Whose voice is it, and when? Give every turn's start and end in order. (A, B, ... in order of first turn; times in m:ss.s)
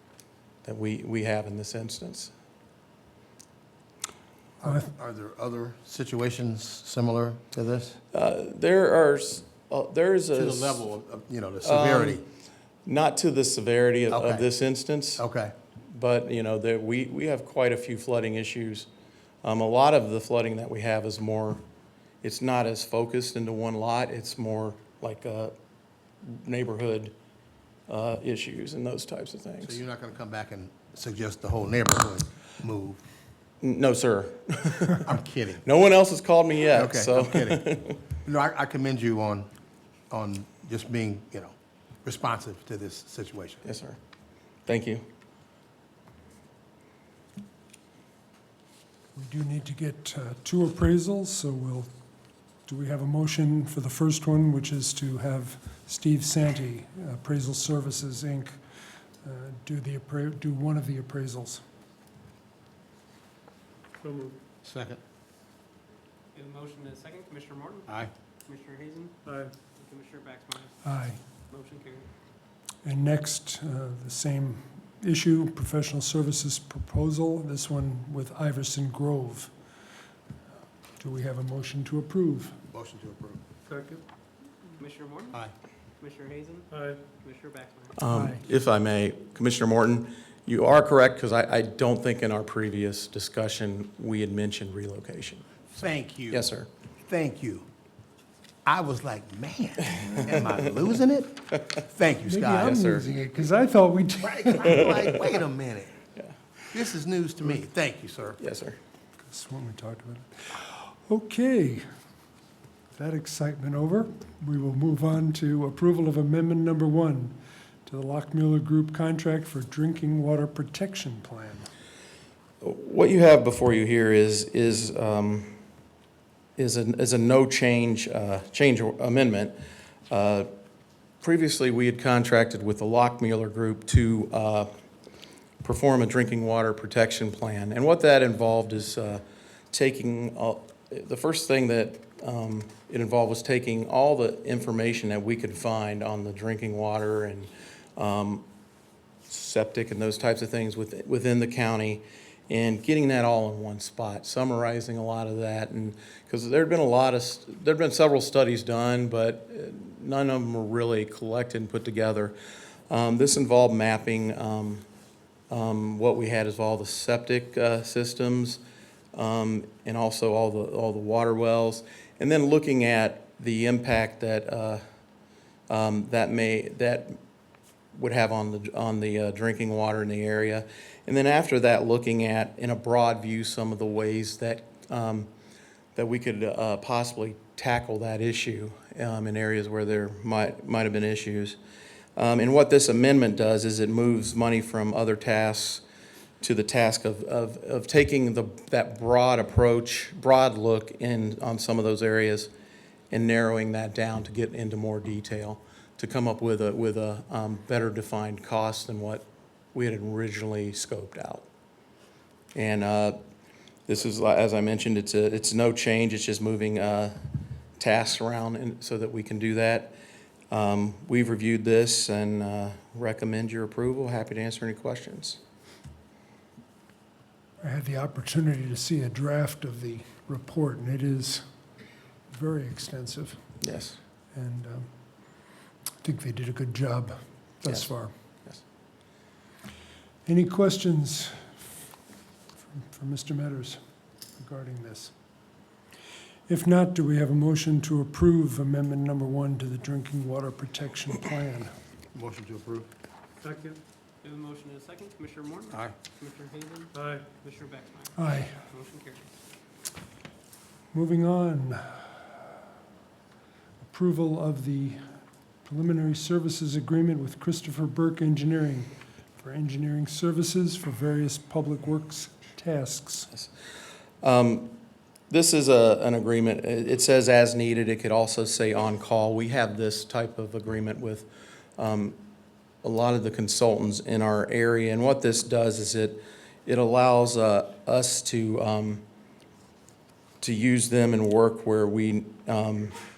0:00.6-0:02.3 A
0:04.6-0:08.0 B
0:08.1-0:10.8 A
0:10.3-0:12.2 B
0:11.6-0:12.2 A
0:12.8-0:15.2 A
0:14.1-0:14.5 B
0:15.2-0:15.5 B
0:15.9-0:18.9 A
0:19.4-0:21.6 A
0:22.2-0:25.5 A
0:26.2-0:27.1 A
0:27.9-0:29.8 A
0:29.6-0:33.0 B
0:33.6-0:35.1 A
0:35.0-0:35.6 B
0:35.6-0:38.0 A
0:36.7-0:39.5 B
0:40.1-0:43.6 B
0:43.6-0:44.0 A
0:44.6-0:45.0 A
0:49.1-0:51.9 C
0:52.7-0:58.6 C
0:59.2-1:01.6 C
1:04.0-1:04.4 D
1:04.6-1:05.0 B
1:06.3-1:07.9 E
1:08.4-1:09.1 E
1:09.2-1:09.5 D
1:09.7-1:10.8 E
1:10.8-1:11.2 C
1:11.5-1:12.1 E
1:12.8-1:19.5 C
1:21.0-1:22.6 C
1:22.7-1:23.4 B
1:23.7-1:24.0 D
1:24.8-1:25.4 E
1:26.0-1:28.0 E
1:26.7-1:27.0 D
1:28.0-1:35.4 A
1:28.1-1:28.4 C
1:35.7-1:36.4 B
1:36.3-1:36.7 A
1:37.0-1:37.7 B
1:38.6-1:42.9 B
1:42.3-1:45.0 C
1:42.6-1:43.0 A
1:44.2-1:45.9 B
1:46.7-1:48.4 B
1:48.4-1:48.8 A
1:49.2-1:51.8 C
1:52.9-2:01.7 C
2:02.6-2:05.6 A
2:06.6-2:09.6 A
2:10.1-2:10.5 A
2:11.2-2:14.7 A
2:15.6-2:28.4 A
2:29.3-2:42.3 A
2:42.9-2:44.8 A
2:45.5-2:48.6 A
2:49.1-2:54.8 A
2:55.7-2:57.2 A
2:57.9-3:05.3 A
3:06.0-3:11.6 A
3:12.2-3:15.8 A
3:16.4-3:22.5 A
3:23.1-3:31.4 A
3:32.5-3:33.2 A
3:33.9-3:37.2 A
3:37.8-3:39.9 A
3:40.5-3:45.4 A
3:47.6-3:51.4 C
3:52.3-3:53.4 C
3:53.6-3:54.0 A
3:54.3-3:54.9 C
3:56.0-3:58.1 C
4:00.2-4:01.4 C
4:02.7-4:03.8 C
4:04.4-4:05.1 C
4:06.5-4:11.7 C
4:12.1-4:12.9 B
4:13.4-4:13.8 D
4:14.2-4:19.3 E
4:16.9-4:17.3 D
4:18.2-4:18.5 C
4:20.9-4:22.2 C
4:23.8-4:25.0 C
4:25.6-4:33.3 C
4:34.2-4:34.8 A
4:35.3-4:42.2 A
4:42.8-4:49.0 A
4:50.4-4:53.0 A